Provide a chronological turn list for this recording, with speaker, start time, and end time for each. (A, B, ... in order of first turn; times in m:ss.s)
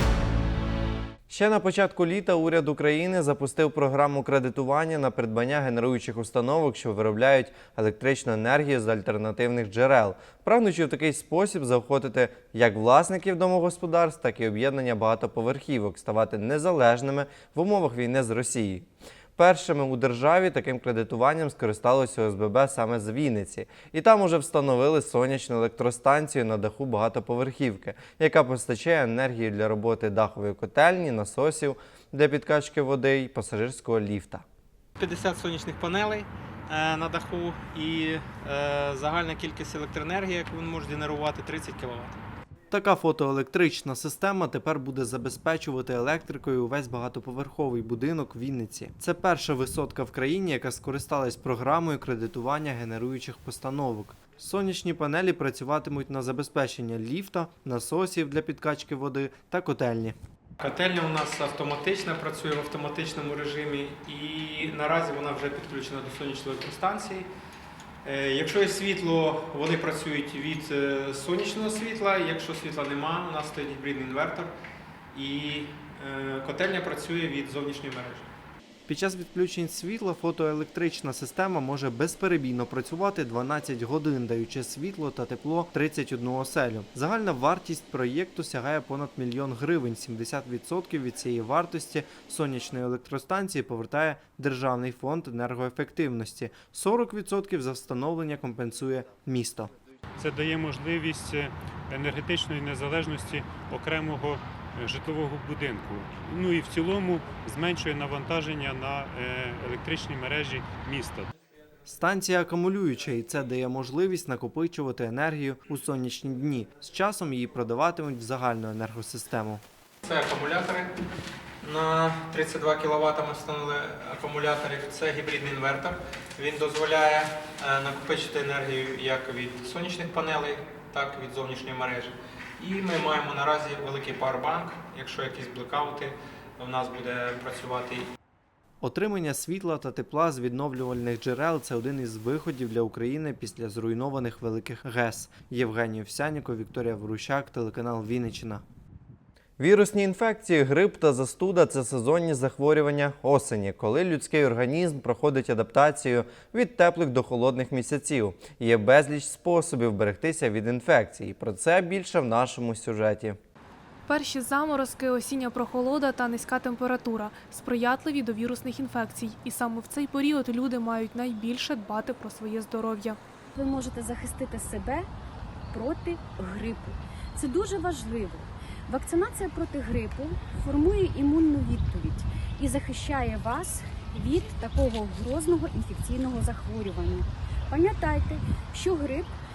0:01.3-0:34.4 A
0:35.0-0:42.2 B
0:42.7-1:00.2 A
1:00.6-1:07.3 B
1:08.0-1:14.5 B
1:15.1-1:18.2 B
1:18.9-1:39.7 A
1:40.2-1:51.3 C
1:51.8-1:59.6 A
2:00.0-2:00.9 B
2:01.6-2:18.1 B
2:18.8-2:28.6 A
2:29.6-2:43.4 A
2:44.1-2:53.2 D
2:53.5-2:55.0 E
2:55.7-3:09.3 E